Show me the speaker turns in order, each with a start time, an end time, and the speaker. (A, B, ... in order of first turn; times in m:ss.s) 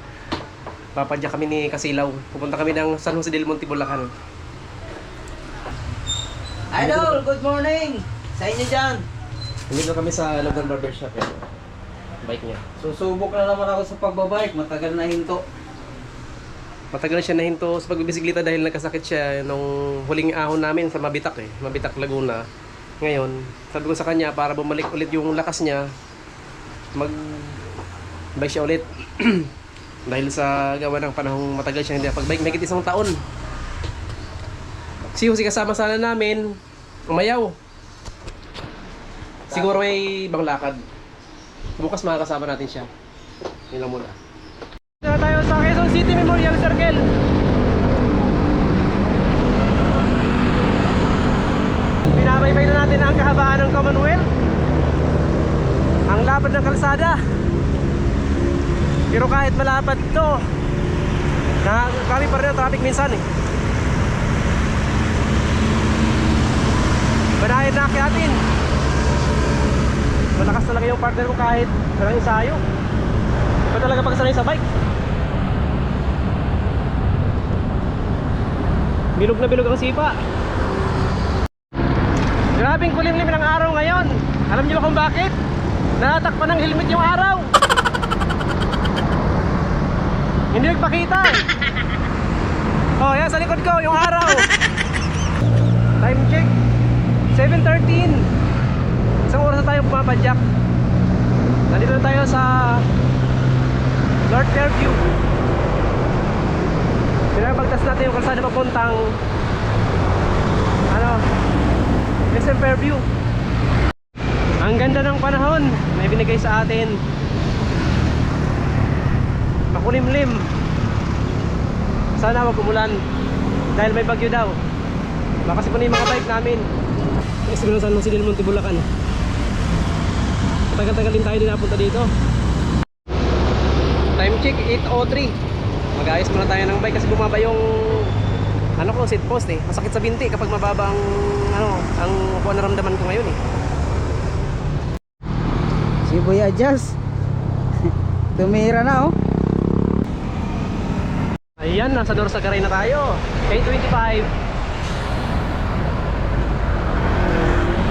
0:00.9-0:04.1 A
0:06.7-0:09.0 B
0:06.8-0:07.2 A
0:09.7-0:11.4 A
0:12.2-0:12.6 A
0:12.8-0:15.4 B
0:16.9-0:22.4 A
0:23.0-0:25.9 A
0:27.0-0:27.6 A
0:28.4-0:29.5 A
0:30.1-0:33.2 A
0:35.1-0:36.6 A
0:37.1-0:37.6 A
0:39.5-0:40.8 A
0:41.8-0:42.9 A
0:43.7-0:44.2 A
0:45.0-0:47.1 A
0:52.1-0:54.3 A
0:56.1-0:57.2 A
0:59.1-1:00.4 A
1:01.6-1:03.2 A
1:07.4-1:08.4 A
1:10.3-1:12.6 A
1:13.7-1:14.6 A
1:19.2-1:20.2 A
1:22.5-1:25.3 A
1:26.0-1:27.5 A
1:30.5-1:31.4 A
1:33.0-1:34.5 A
1:36.0-1:36.5 A
1:37.3-1:38.3 A
1:39.3-1:40.4 A
1:41.7-1:42.9 A
1:44.3-1:45.0 A
1:47.3-1:49.1 A
1:50.9-1:51.2 A
1:52.3-1:53.0 A
1:54.6-1:57.0 A
1:59.7-2:00.5 A
2:02.2-2:03.0 A
2:03.8-2:04.6 A
2:05.5-2:06.7 A
2:07.5-2:08.8 A
2:10.7-2:12.1 A
2:14.2-2:15.3 A
2:15.9-2:18.1 A
2:18.8-2:23.4 A
2:26.1-2:27.0 B
2:28.4-2:29.2 B
2:31.6-2:34.3 A